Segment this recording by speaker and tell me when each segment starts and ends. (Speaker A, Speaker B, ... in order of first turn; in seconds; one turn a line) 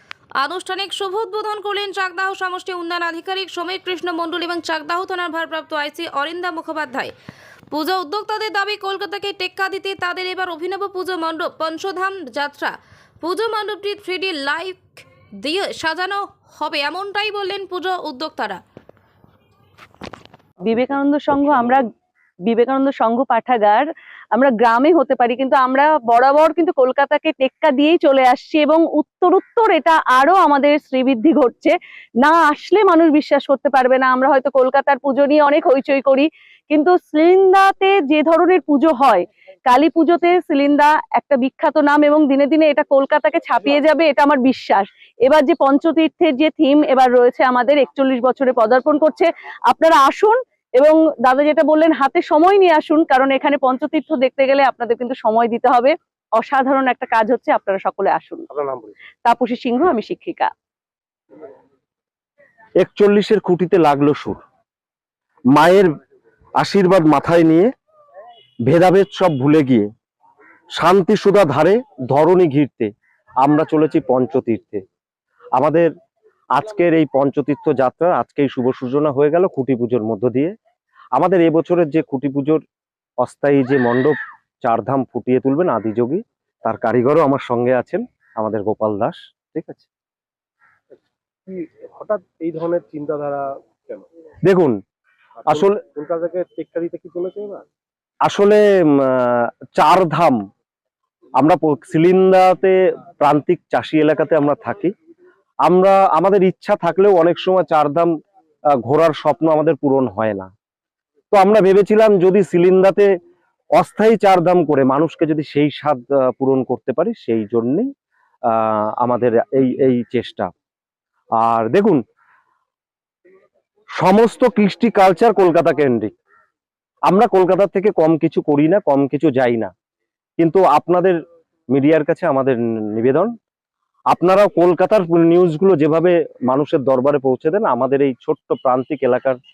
Speaker A: 0.4-7.1
Speaker A: 7.7-18.6
Speaker B: 20.6-21.8
Speaker B: 22.5-58.5
Speaker C: 58.5-59.0
Speaker B: 59.2-60.5
Speaker D: 62.8-64.4
Speaker D: 65.5-65.9
Speaker D: 66.6-67.7
Speaker D: 68.7-69.9
Speaker D: 70.7-74.8
Speaker D: 75.5-75.9
Speaker D: 76.5-80.5
Speaker D: 81.1-82.6
Speaker D: 83.2-89.9
Speaker C: 91.5-94.0
Speaker D: 94.4-94.8
Speaker C: 95.4-97.6
Speaker D: 98.2-100.4
Speaker D: 101.4-104.9
Speaker D: 105.6-108.1
Speaker D: 108.7-110.5
Speaker D: 111.3-113.1
Speaker D: 113.8-117.9
Speaker D: 118.5-120.5
Speaker D: 121.4-122.0
Speaker D: 124.0-126.1
Speaker D: 127.1-129.7
Speaker D: 130.4-131.2
Speaker D: 131.7-133.3
Speaker D: 134.1-139.4